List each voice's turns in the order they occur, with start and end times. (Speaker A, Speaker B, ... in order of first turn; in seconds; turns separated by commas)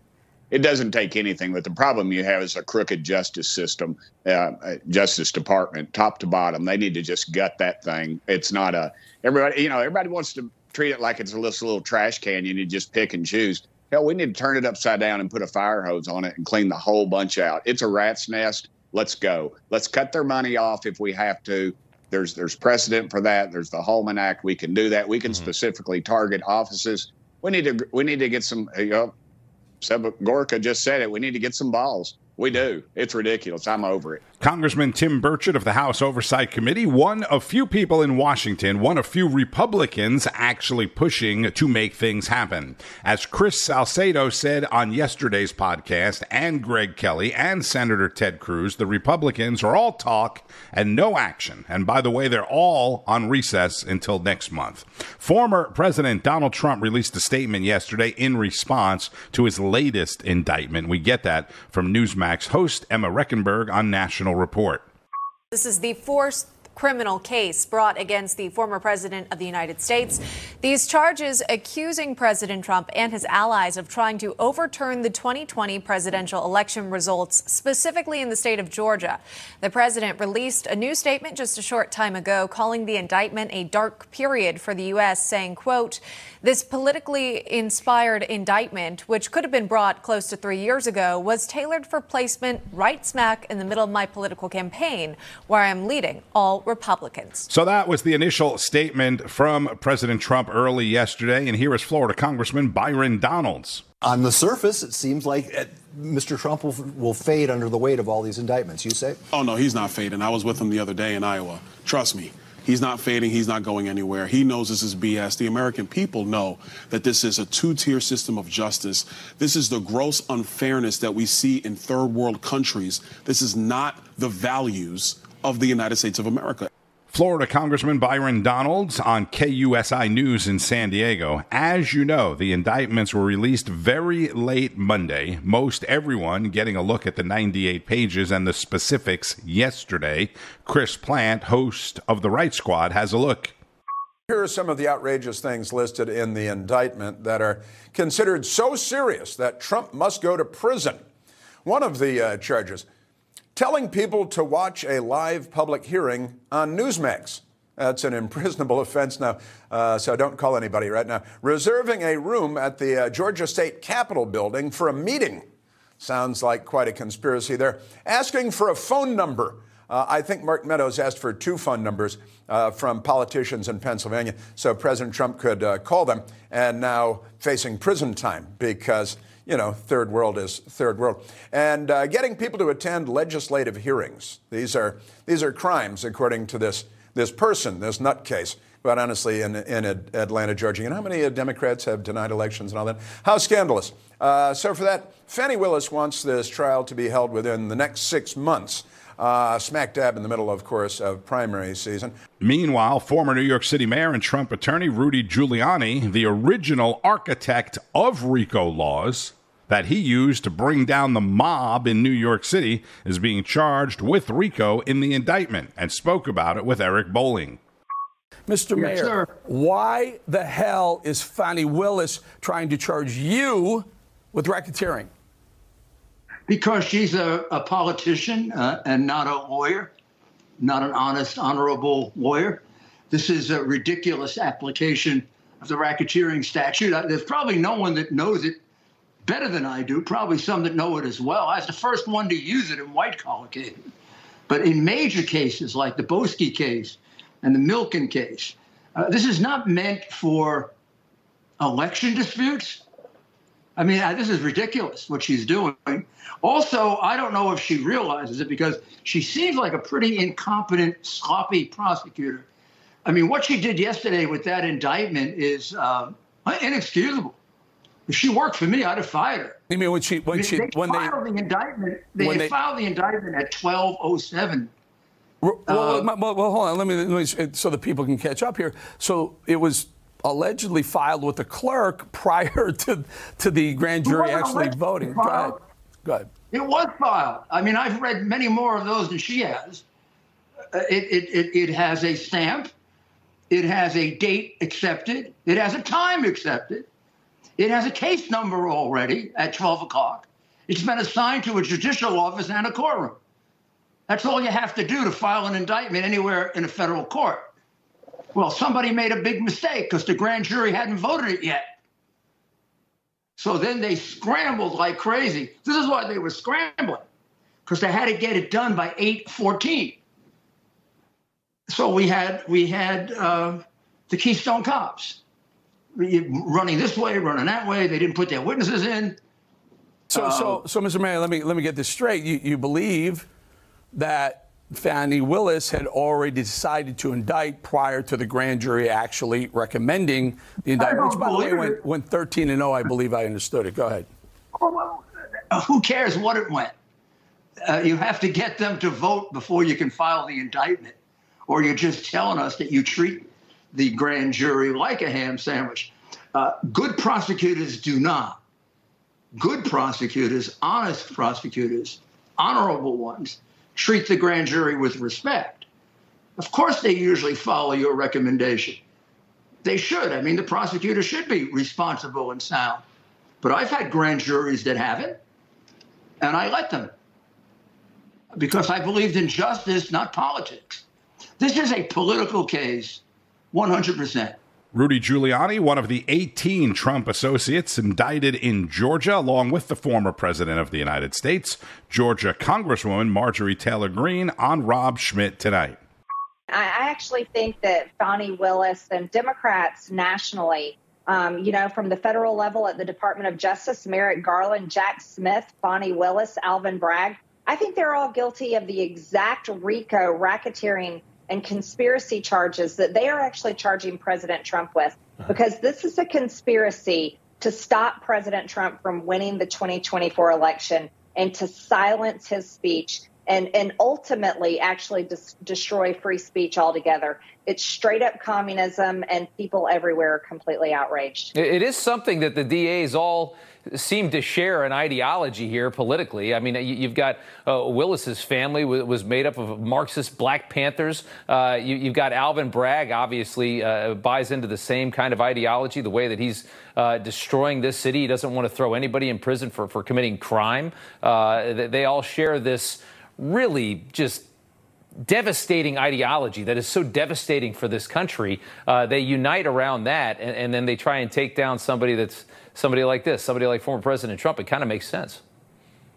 Speaker A: 0.5-29.1, Speaker A: 29.8-34.2, Speaker B: 34.4-64.8, Speaker C: 65.5-97.5, Speaker B: 97.5-103.8, Speaker D: 104.0-109.2, Speaker E: 109.3-126.6, Speaker B: 127.1-143.5, Speaker F: 144.3-151.0, Speaker F: 151.6-152.8, Speaker F: 153.6-165.4, Speaker F: 166.0-202.1, Speaker B: 202.4-217.6, Speaker G: 218.5-225.1, Speaker H: 218.8-219.1, Speaker H: 226.5-229.9, Speaker H: 230.6-238.6, Speaker H: 239.2-243.8, Speaker H: 244.5-250.7, Speaker H: 251.6-252.8, Speaker H: 253.8-262.4, Speaker H: 263.0-267.4, Speaker H: 268.1-269.6, Speaker G: 269.7-271.1, Speaker H: 270.3-274.7, Speaker G: 272.2-272.5, Speaker G: 275.4-286.3, Speaker H: 284.1-285.6, Speaker H: 286.5-289.8, Speaker H: 290.7-292.7, Speaker H: 293.5-296.9, Speaker H: 297.6-303.2, Speaker H: 304.1-307.5, Speaker H: 308.3-311.6, Speaker H: 313.4-317.0, Speaker H: 317.6-320.0, Speaker H: 321.7-325.2, Speaker H: 325.9-329.2, Speaker G: 330.1-333.3, Speaker H: 330.2-330.5, Speaker G: 333.9-344.1, Speaker H: 340.8-341.7, Speaker H: 344.6-346.7, Speaker H: 347.6-350.9, Speaker H: 351.5-358.4, Speaker H: 359.4-365.6, Speaker H: 366.4-368.8, Speaker H: 369.6-372.8, Speaker H: 373.4-375.2, Speaker H: 376.2-376.9, Speaker H: 378.3-380.8, Speaker H: 381.4-384.4, Speaker B: 384.7-395.8, Speaker I: 396.5-431.3, Speaker J: 431.3-454.3, Speaker J: 455.1-465.2